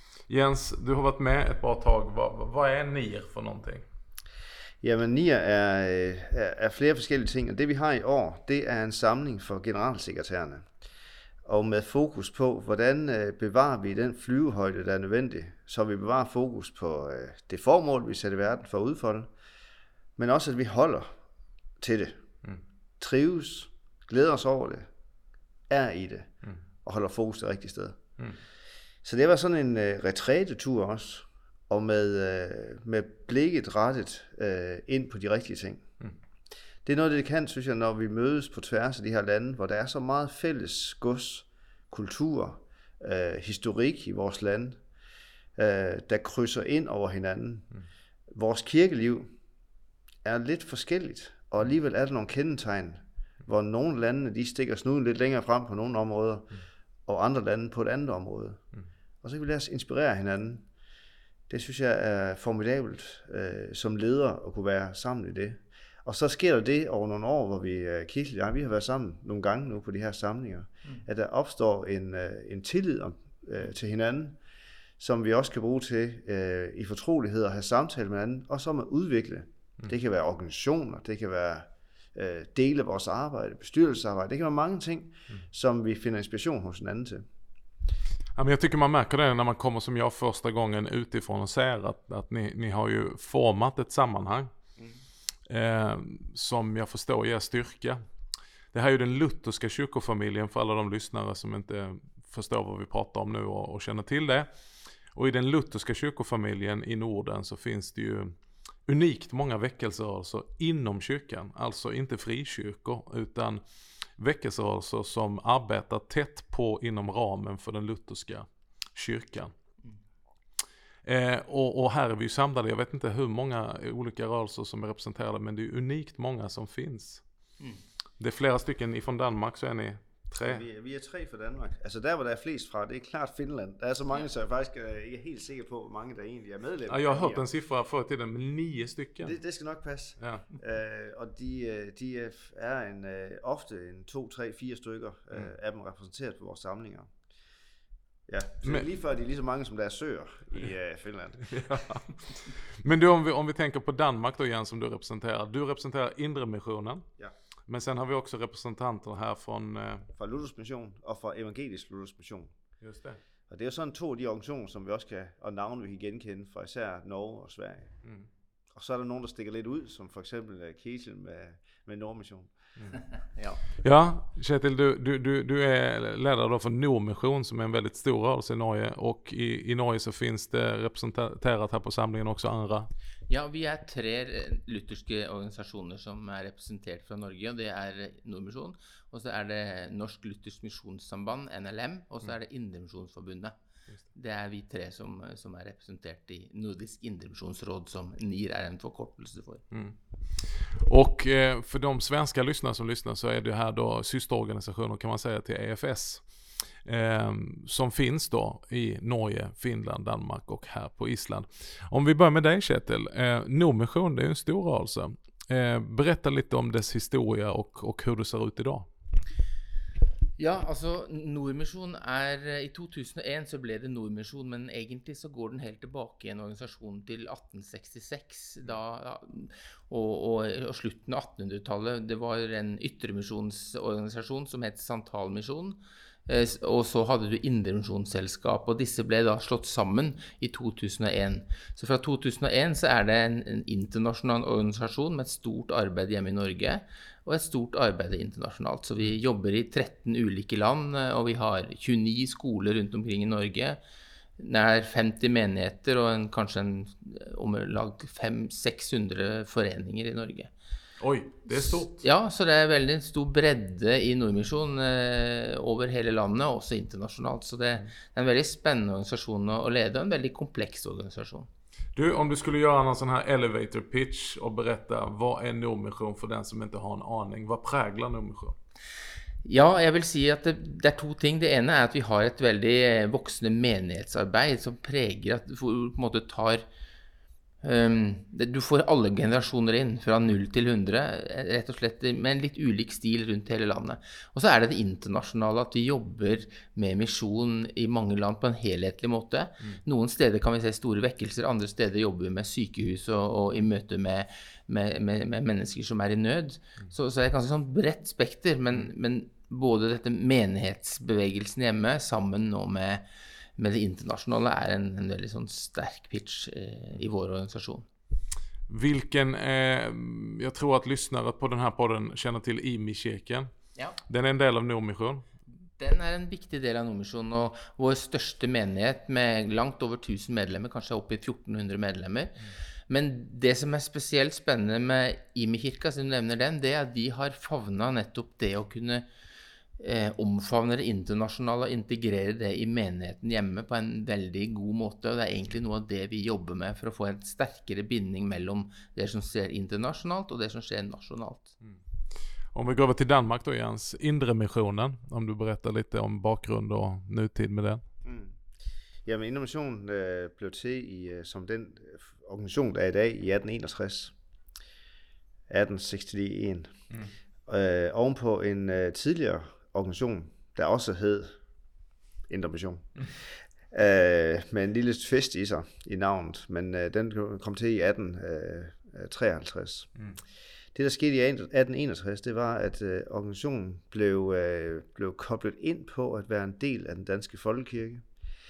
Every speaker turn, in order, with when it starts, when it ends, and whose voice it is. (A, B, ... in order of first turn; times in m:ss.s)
0:00.3-0:03.8 A
0:04.8-0:10.7 B
0:11.4-0:19.3 B
0:20.2-0:21.1 B
0:21.8-0:22.2 B
0:23.0-0:24.9 B
0:25.7-0:26.3 B
0:26.8-0:28.0 B
0:29.0-0:35.8 B
0:36.8-0:44.8 B
0:45.6-0:47.6 B
0:48.3-0:49.3 B
0:50.2-0:56.5 B
0:57.1-0:58.6 B
0:59.2-1:00.6 B
1:01.5-1:14.4 B
1:15.0-1:27.2 B
1:28.4-1:34.5 A
1:35.5-1:38.0 A
1:38.7-1:44.5 A
1:45.1-1:48.3 A
1:48.8-1:53.6 A
1:54.2-1:59.5 A
2:01.0-2:07.2 A
2:08.2-2:10.6 A
2:10.4-2:17.4 B
2:16.9-2:19.4 A
2:19.2-2:27.1 B
2:20.2-2:20.4 A
2:28.3-2:31.6 B
2:31.5-2:37.0 A
2:37.7-2:40.1 A
2:40.1-2:42.5 B
2:42.8-2:43.2 A
2:43.5-2:47.9 B
2:48.7-2:52.5 B
2:53.8-3:02.9 A
3:03.3-3:13.5 C
3:14.1-3:19.6 C
3:19.7-3:26.2 A
3:26.8-3:38.9 A
3:40.4-4:13.8 C
4:14.4-4:20.5 C
4:21.0-4:22.0 A
4:21.5-4:31.5 C
4:31.9-4:38.6 A
4:39.4-4:46.6 C
4:47.6-5:13.0 C
5:13.6-5:17.9 C
5:18.7-5:23.5 A
5:24.1-5:25.2 A
5:25.8-5:32.4 C
5:32.9-5:39.0 C
5:39.8-5:51.5 C
5:52.5-5:57.8 A
5:58.0-5:58.4 B
5:59.0-6:04.1 B
6:05.5-6:06.7 B
6:07.5-6:11.4 B
6:12.3-6:13.0 B
6:13.7-6:19.9 B
6:20.7-6:28.0 B